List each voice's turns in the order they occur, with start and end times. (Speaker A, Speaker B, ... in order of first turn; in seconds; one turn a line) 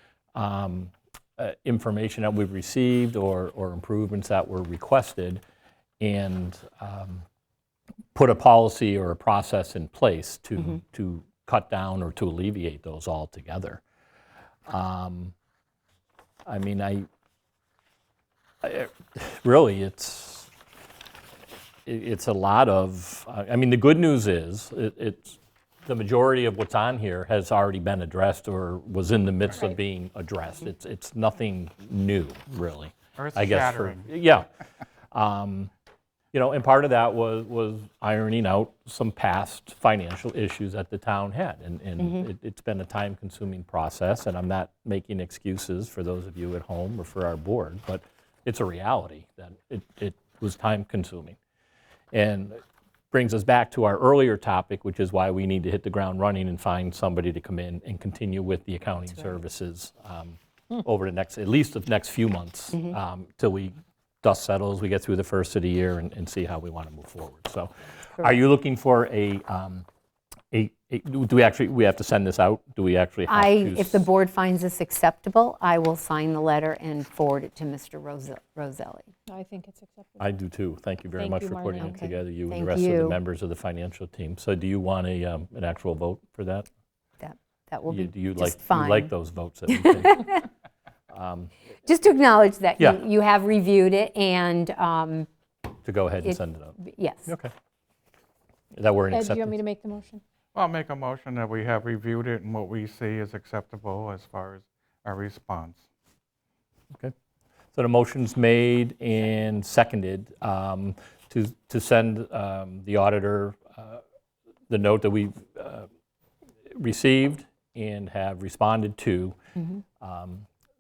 Speaker A: 0.3-5.4
Speaker A: 6.0-7.2
Speaker A: 8.1-13.8
Speaker A: 14.7-15.3
Speaker A: 16.4-17.1
Speaker A: 18.6-20.5
Speaker A: 21.9-34.5
Speaker B: 33.2-34.0
Speaker A: 35.1-35.7
Speaker A: 36.3-51.4
Speaker A: 52.1-52.6
Speaker A: 53.1-69.8
Speaker A: 70.5-74.0
Speaker C: 73.3-79.1
Speaker D: 79.3-80.3
Speaker A: 80.2-86.7
Speaker D: 81.2-82.0
Speaker C: 81.8-83.2
Speaker C: 87.2-89.1
Speaker A: 87.9-90.4
Speaker C: 89.7-90.4
Speaker A: 91.1-91.5
Speaker C: 91.8-95.3
Speaker A: 95.8-97.5
Speaker C: 96.2-97.3
Speaker A: 98.8-99.6
Speaker D: 99.1-100.2
Speaker B: 100.5-105.8
Speaker A: 107.7-114.0
Speaker A: 114.7-115.9
Speaker A: 116.7-119.4
Speaker A: 120.0-120.5